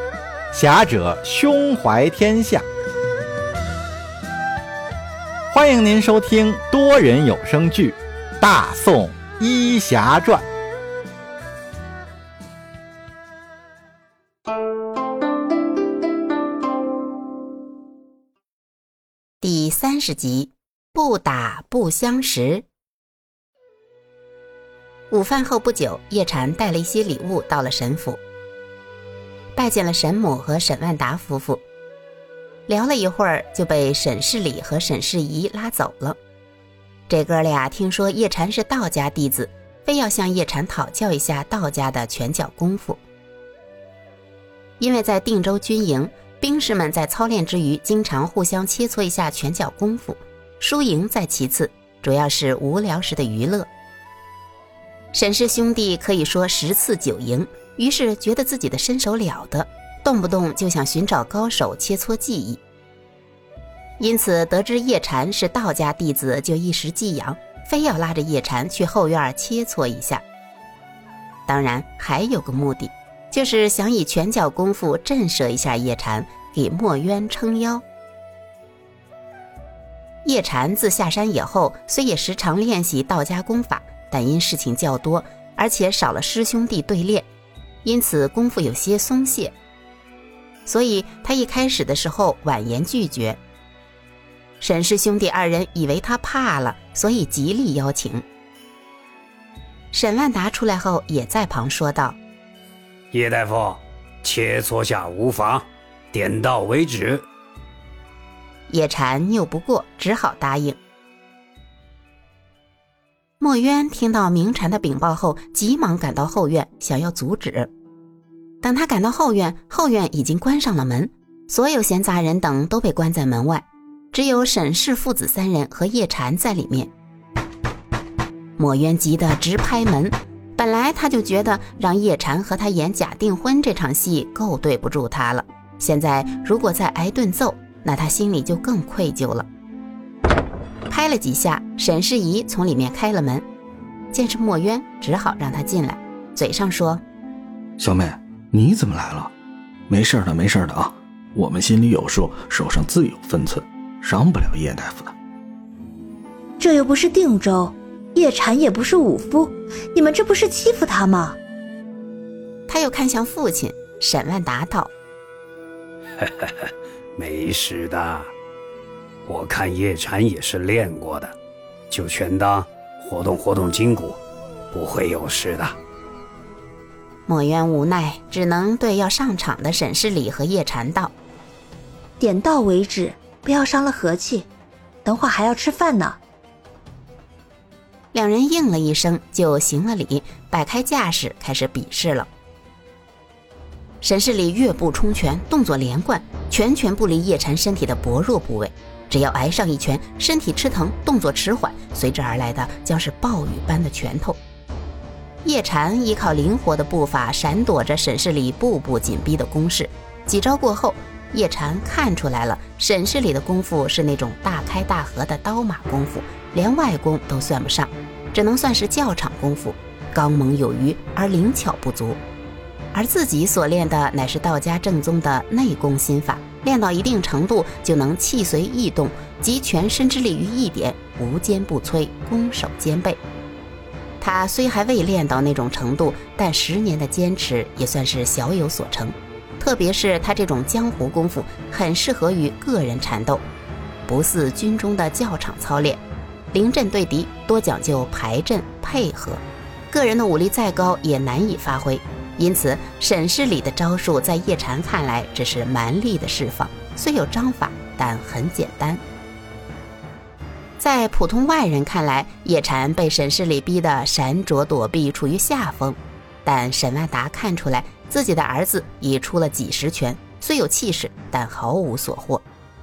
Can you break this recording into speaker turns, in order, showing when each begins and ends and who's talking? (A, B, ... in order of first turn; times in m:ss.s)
0:00.5-0:02.6 A
0:05.5-0:10.4 A
0:19.4-0:22.6 B
0:25.1-0:28.2 B
0:29.5-0:31.6 B
0:32.7-0:36.2 B
0:37.1-0:43.0 B
0:44.8-0:53.7 B
0:55.1-1:02.6 B
1:04.0-1:10.2 B
1:11.5-1:17.8 B
1:20.2-1:27.3 B
1:27.8-1:29.5 B
1:30.6-1:33.4 B
1:34.6-1:38.2 B
1:39.9-1:42.2 B
1:43.1-1:47.2 C
1:48.7-1:50.8 B
1:53.4-1:57.7 B
1:58.6-2:06.9 B
2:08.6-2:19.5 B
2:20.9-2:23.4 B
2:24.1-2:27.0 B
2:27.8-2:29.3 D
2:29.9-2:35.1 D
2:36.6-2:41.4 E
2:42.7-2:44.9 B
2:46.2-2:48.3 C
2:49.3-2:51.3 C
2:51.9-2:54.2 C
2:54.7-2:55.8 C
2:57.3-3:01.1 B
3:02.2-3:04.4 E
3:05.0-3:06.2 E
3:08.1-3:12.3 B
3:14.0-3:24.4 B
3:25.4-3:42.2 B
3:42.9-3:53.2 B
3:54.2-4:03.4 B
4:04.1-4:06.0 B
4:06.5-4:19.0 B
4:20.8-4:32.4 B